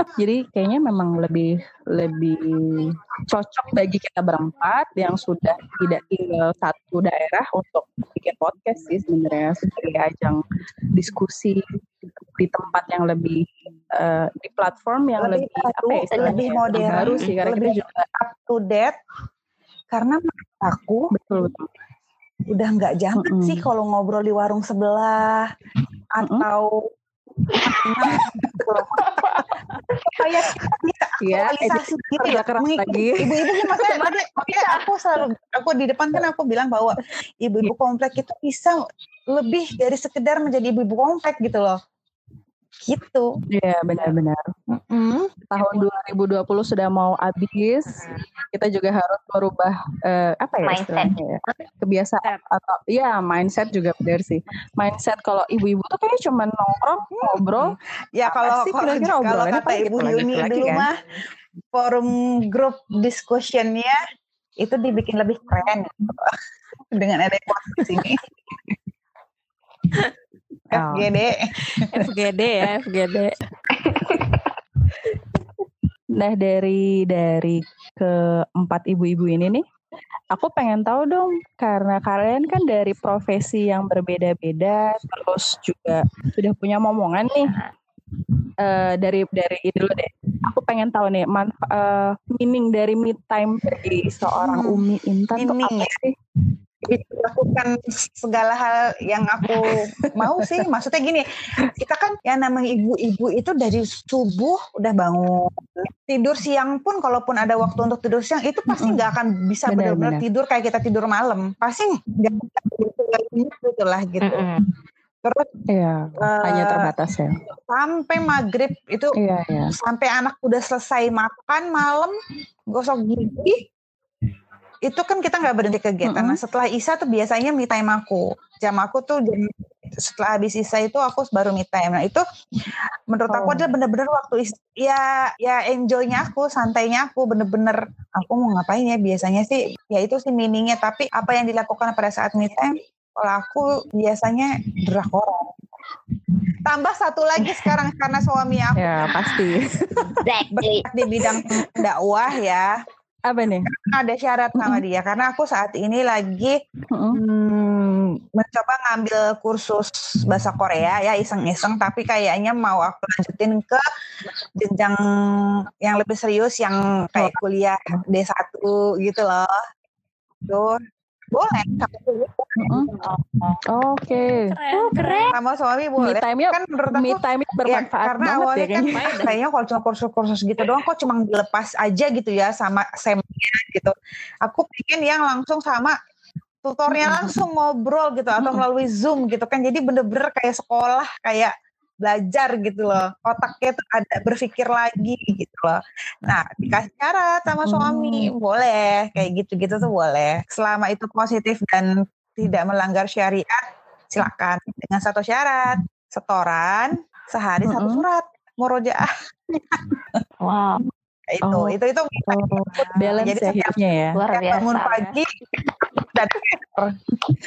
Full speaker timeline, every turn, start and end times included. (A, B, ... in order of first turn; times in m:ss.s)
0:00.1-0:18.0 A
0:15.2-0:19.0 B
0:16.1-0:17.4 C
0:19.9-0:21.1 B
0:21.1-0:21.7 A
0:22.5-0:25.5 B
0:23.2-0:23.6 A
0:26.1-0:26.8 B
0:26.2-0:26.4 A
0:27.6-0:28.9 B
0:28.6-0:29.4 A
0:29.0-0:30.2 C
0:30.1-0:41.8 B
0:31.2-0:33.4 A
0:33.8-0:35.0 C
0:42.8-0:43.3 B
0:43.5-0:44.5 A
0:44.7-0:45.3 B
0:45.5-1:00.9 A
0:50.6-0:51.6 C
0:57.1-1:01.0 B
1:01.7-1:04.0 B
1:04.6-1:06.4 B
1:06.9-1:08.2 B
1:10.7-1:12.1 B
1:10.7-1:11.1 A
1:11.8-1:13.3 D
1:13.7-1:14.5 C
1:16.2-1:19.6 A
1:20.3-1:27.5 A
1:28.6-1:36.1 A
1:34.4-1:34.8 B
1:35.3-1:36.0 B
1:36.8-1:54.5 B
1:39.5-1:40.3 A
1:48.7-1:49.0 A
1:49.7-1:50.2 A
1:54.2-1:54.7 C
1:55.2-1:55.5 B
1:55.7-1:57.4 A
1:56.2-1:56.9 B
1:57.7-1:59.1 B
1:59.2-1:59.7 A
1:59.7-2:02.1 B
2:02.7-2:03.6 B
2:04.8-2:12.2 B
2:06.0-2:06.4 A
2:13.1-2:25.5 B
2:13.3-2:13.7 A
2:26.6-2:29.4 B
2:28.8-2:30.2 A
2:30.2-2:30.8 C
2:30.5-2:32.7 B
2:31.4-2:31.7 A
2:33.2-2:33.7 A
2:33.7-2:36.6 B
2:34.5-2:34.8 A
2:36.9-2:37.2 A
2:37.1-2:43.8 B
2:44.6-2:49.6 B
2:50.4-2:50.8 B
2:51.3-2:53.1 B
2:52.6-2:52.9 A
2:53.7-2:55.2 A
2:54.3-2:55.3 D
2:55.0-2:55.3 C
2:55.3-3:03.9 B
2:56.0-2:59.0 A
2:58.9-2:59.4 D
3:04.4-3:05.9 B
3:06.6-3:11.5 B
3:07.0-3:07.3 A
3:08.4-3:08.6 A
3:12.0-3:30.2 B
3:17.6-3:18.3 A
3:27.7-3:28.0 A
3:30.4-3:30.8 C
3:31.3-3:35.3 B
3:31.4-3:31.7 A
3:32.3-3:34.2 A
3:34.1-3:35.2 C
3:36.0-3:36.9 B